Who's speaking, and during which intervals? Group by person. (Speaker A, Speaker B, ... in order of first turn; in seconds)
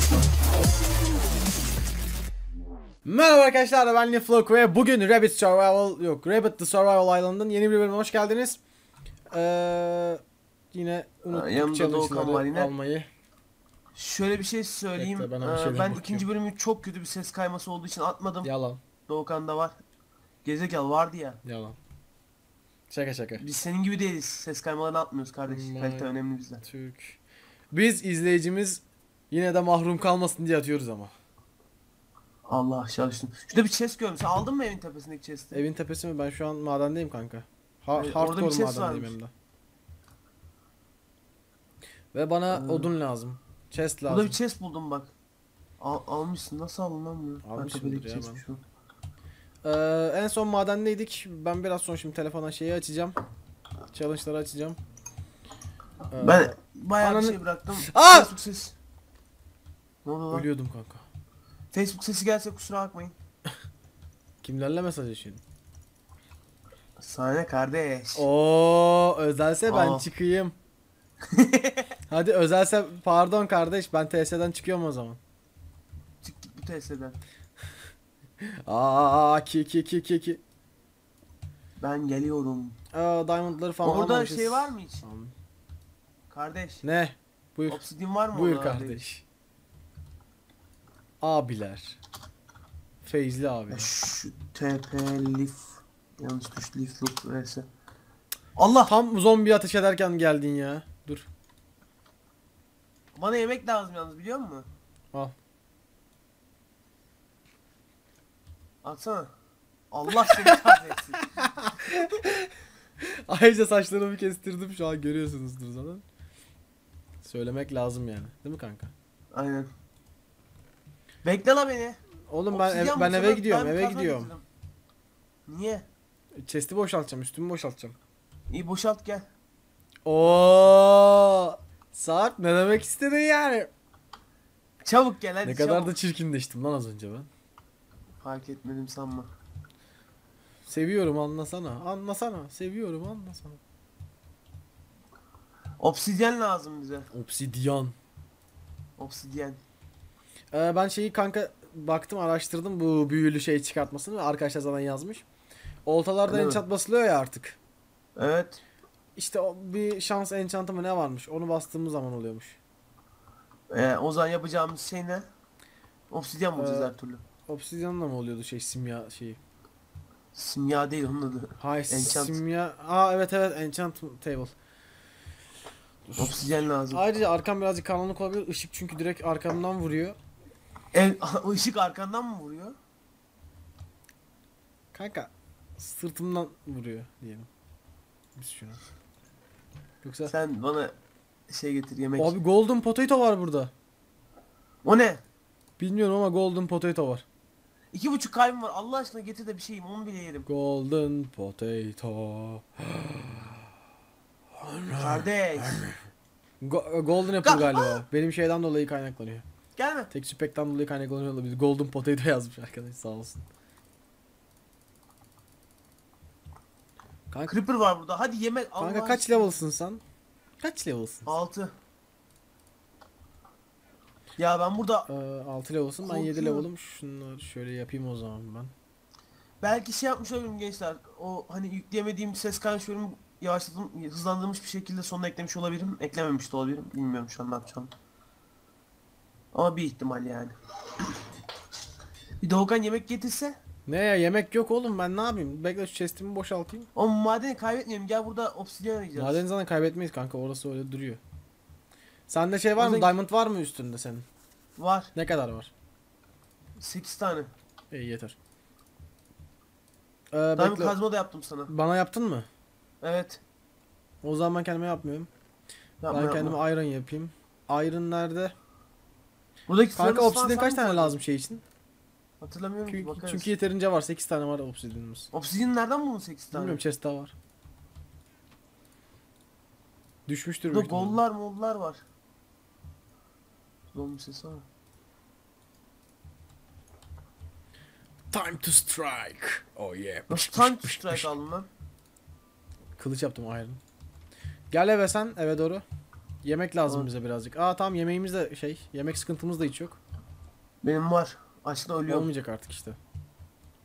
Speaker A: 3.0-8.6, 9.3-10.2, 10.7-13.1, 14.9-16.2, 18.4-18.8, 21.4-21.8, 22.9-23.4, 25.5-26.1, 26.6-27.2, 27.7-31.1, 35.5-39.3, 42.1-44.4, 47.4-48.4, 49.6-53.2, 53.9-54.8, 56.1-58.3, 60.3-61.0, 64.4-65.4, 68.2-70.5, 72.1-75.2, 78.4-80.4, 82.9-85.3, 86.8-87.8, 88.3-89.2, 91.2-92.0, 93.0-93.9, 98.9-101.3, 110.2-112.5, 113.0-116.0, 117.2-118.9, 122.3-124.3, 126.4-128.0, 130.1-133.7, 135.4-137.3, 140.7-143.6, 147.1-147.9, 150.5-155.2, 155.8-157.6, 159.2-162.6, 166.6-166.9, 167.5-169.4, 171.6-174.5, 176.1-180.2, 184.9-187.5, 188.3-188.8, 190.0-190.3, 192.2-193.7, 195.8-197.2, 200.4-203.7, 204.6-206.0, 206.6-209.4, 210.1-213.4, 218.8-220.0, 220.6-221.3, 225.1-228.7, 243.8-246.9, 249.2-251.2, 252.3-254.2, 255.2-255.7, 257.9-258.4, 260.3-261.0, 261.7-262.5, 264.2-265.3, 266.1-268.5, 270.0-271.6, 272.9-275.3, 276.5-277.3, 280.3-281.2, 288.3-291.3, 293.0-293.8, 294.7-295.8, 296.4-300.0, 302.1-303.0
Speaker B: 11.3-12.7, 13.9-18.5, 19.1-19.8, 20.4-21.4, 23.4-26.6, 32.5-35.6, 38.0-39.1, 42.5-42.9, 44.1-45.1, 45.8-48.6, 56.2-58.8, 60.0-60.5, 61.7-63.1, 67.0-68.3, 69.7-70.0, 71.3-71.9, 76.2-77.2, 81.8-82.8, 83.8-85.0, 86.3-86.8, 87.7-89.0, 93.7-97.7, 98.6-98.9, 103.2-104.7, 108.8-109.3, 109.9-111.2, 119.3-119.7, 121.2-122.0, 122.5-124.5, 125.5-125.9, 128.5-129.3, 134.8-135.9, 138.2-139.3, 145.8-147.1, 149.0-149.6, 156.3-156.6, 158.2-158.6, 163.7-165.2, 166.1-167.2, 170.3-172.4, 176.2-177.0, 180.9-182.8, 190.3-190.9, 191.5-192.3, 194.8-195.2, 197.9-200.4, 205.0-205.8, 207.4-208.0, 209.8-210.1, 217.5-219.5, 221.2-221.8, 224.4-225.1, 226.0-226.7, 229.6-237.9, 239.5-240.5, 242.4-243.6, 246.9-249.4, 252.8-253.1, 254.8-255.1, 256.8-257.5, 260.6-261.7, 263.0-263.4, 266.0-266.6, 269.7-271.2, 272.4-273.5, 275.3-276.8, 280.7-282.0, 283.9-284.6, 290.3-291.7, 300.8-302.3